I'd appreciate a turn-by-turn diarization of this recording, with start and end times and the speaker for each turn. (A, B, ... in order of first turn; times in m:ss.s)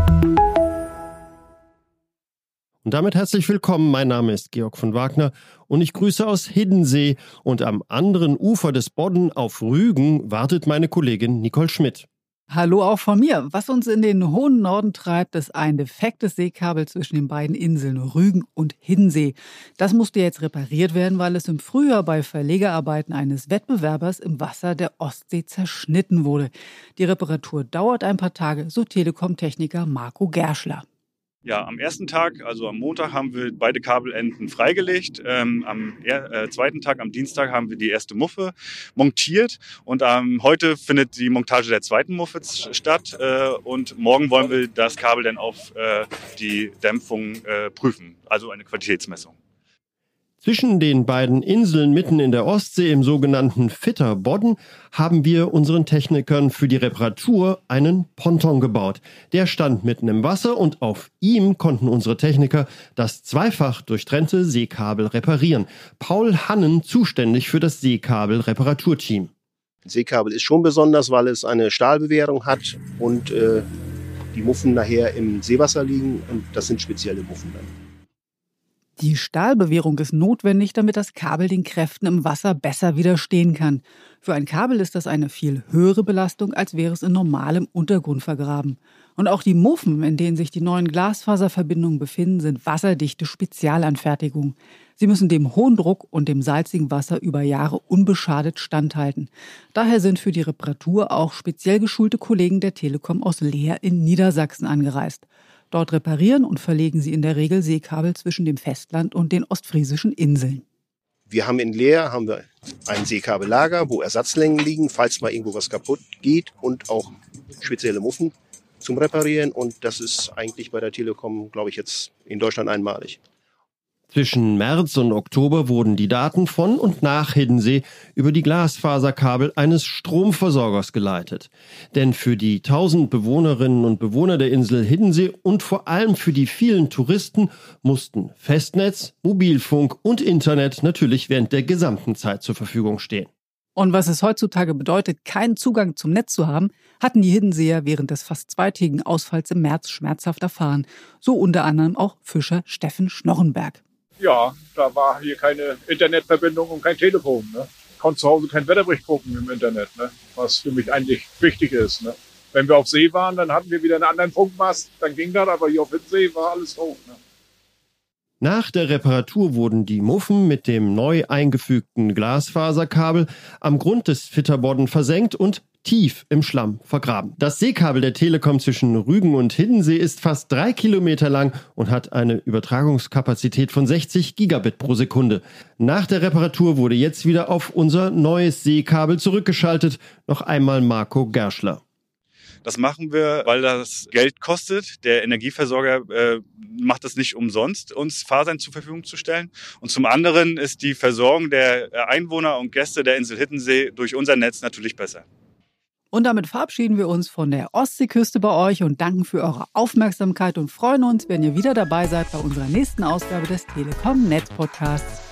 0:02.8-0:12.1 A
0:12.5-0:30.8 B
0:31.4-0:49.3 C
0:50.4-1:09.3 A
1:09.8-1:13.6 D
1:14.3-1:17.7 D
1:19.0-1:50.6 B
1:51.3-2:03.2 D
2:04.1-2:23.3 A
2:23.8-2:33.8 B
2:34.2-2:47.2 E
2:48.4-3:11.8 A
3:12.6-3:25.2 C
3:26.1-3:35.2 B